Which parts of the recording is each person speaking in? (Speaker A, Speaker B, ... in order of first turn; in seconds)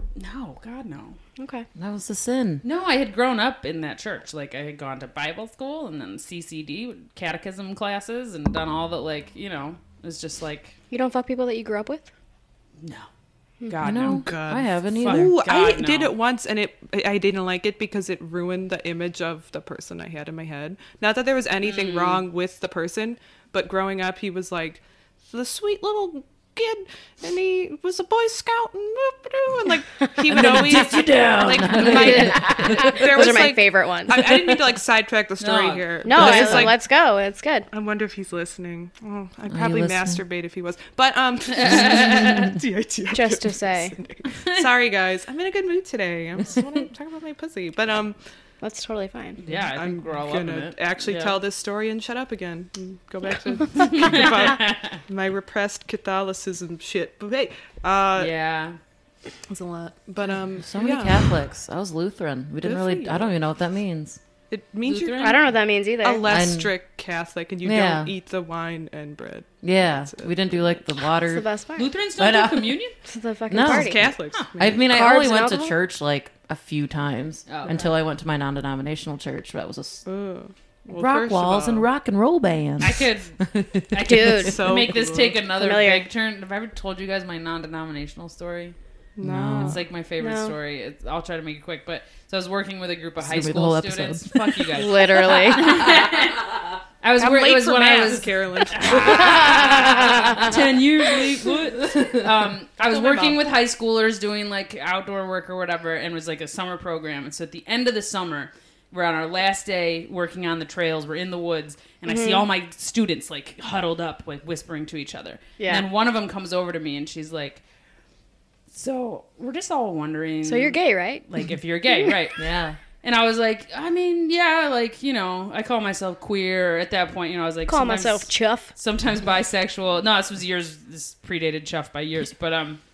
Speaker A: 0.2-1.2, 2.6-10.8, 12.8-13.1, 13.7-14.4, 14.9-16.2, 21.6-22.2, 35.4-36.6, 41.5-42.6, 44.3-44.7, 49.4-51.4, 53.8-55.0, 58.2-58.8, 64.8-65.4, 71.8-73.0, 77.5-77.9, 82.8-83.4, 83.9-88.8, 89.6-117.6, 118.7-122.4, 123.0-132.8
Speaker B: 1.4-1.7, 10.9-12.1, 31.8-34.2, 36.0-37.7, 43.1-44.0, 48.6-49.4, 65.2-66.4, 71.3-71.9, 73.0-74.0, 74.9-75.8, 84.0-84.6, 85.6-86.1, 90.2-90.5, 94.7-95.8, 99.0-100.5, 112.1-112.5, 115.6-115.9, 120.4-121.2, 127.7-128.7
Speaker C: 1.8-2.6, 13.8-15.4, 30.3-33.3, 36.1-36.7, 39.5-40.2, 60.6-64.2, 66.2-66.7, 67.6-68.1, 69.6-71.5, 72.2-72.8, 73.5-80.1, 80.9-84.5, 89.2-89.8, 93.2-94.8, 101.8-102.2, 122.4-122.8
Speaker D: 14.2-36.8, 37.7-48.2, 49.5-58.3, 59.5-61.3, 62.6-63.4, 64.5-65.4, 66.0-70.8, 73.6-74.9, 80.0-81.9, 84.5-85.4, 89.2-89.8, 97.2-100.0, 102.8-103.4